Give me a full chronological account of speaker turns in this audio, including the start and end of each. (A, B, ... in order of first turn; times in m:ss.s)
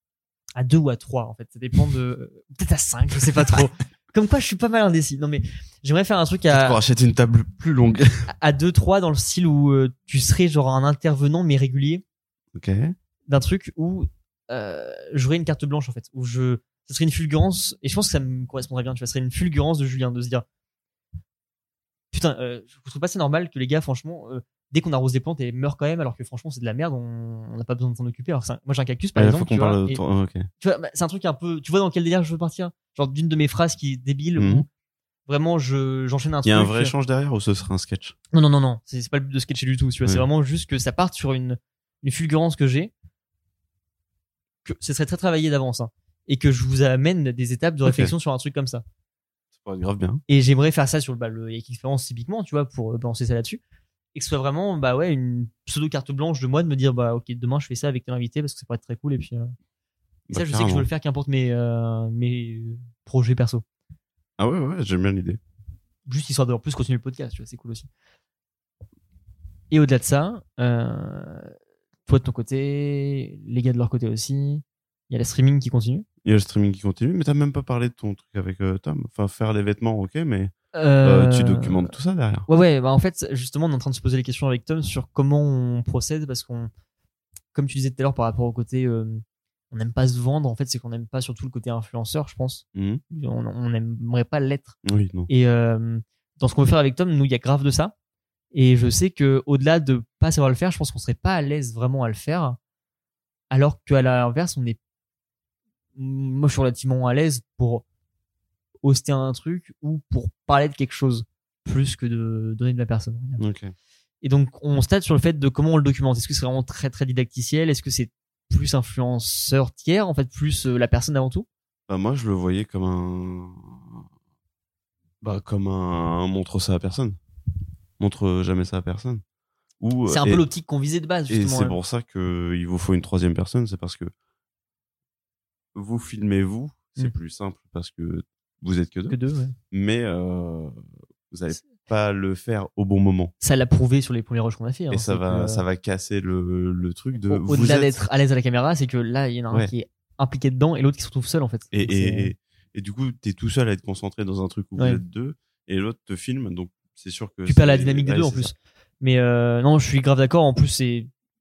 0:00.6-0:06.8 A
0:06.5-0:08.3 B
0:08.3-0:12.0 A
0:12.6-0:13.0 B
0:13.3-0:20.4 A
0:22.1-0:30.0 A
0:29.2-0:30.5 B
0:30.6-0:34.7 A
0:34.4-0:34.7 B
0:35.3-0:36.9 A
0:36.4-0:38.2 B
0:38.3-0:42.9 A
0:44.6-0:48.8 A
0:47.8-0:48.1 B
0:49.6-0:50.2 B
0:50.3-0:53.6 A
0:54.2-0:59.5 A
1:00.3-1:00.9 B
1:00.3-1:03.6 A
1:04.4-1:05.4 B
1:06.1-1:07.9 A
1:09.7-1:11.5 A
1:12.1-1:16.0 A
1:16.2-1:22.5 B
1:20.7-1:21.9 A
1:22.5-1:26.7 A
1:27.5-1:34.8 A
1:32.7-1:33.0 B
1:34.8-1:35.3 B
1:35.3-1:37.9 A
1:38.5-1:42.6 A
1:43.5-1:44.8 A
1:46.0-1:47.8 A
1:48.8-1:53.4 A
1:53.4-1:53.7 B
1:54.2-2:01.5 A
2:01.9-2:04.0 B
2:05.2-2:07.2 B
2:08.0-2:09.2 B
2:09.8-2:10.4 B
2:10.1-2:11.8 A
2:11.3-2:14.1 B
2:15.8-2:19.2 B
2:19.1-2:19.6 A
2:19.7-2:23.3 B
2:23.4-2:25.6 A
2:24.9-2:28.0 B
2:27.3-2:32.3 A
2:31.7-2:38.5 B
2:34.8-2:35.0 A
2:37.5-2:41.1 A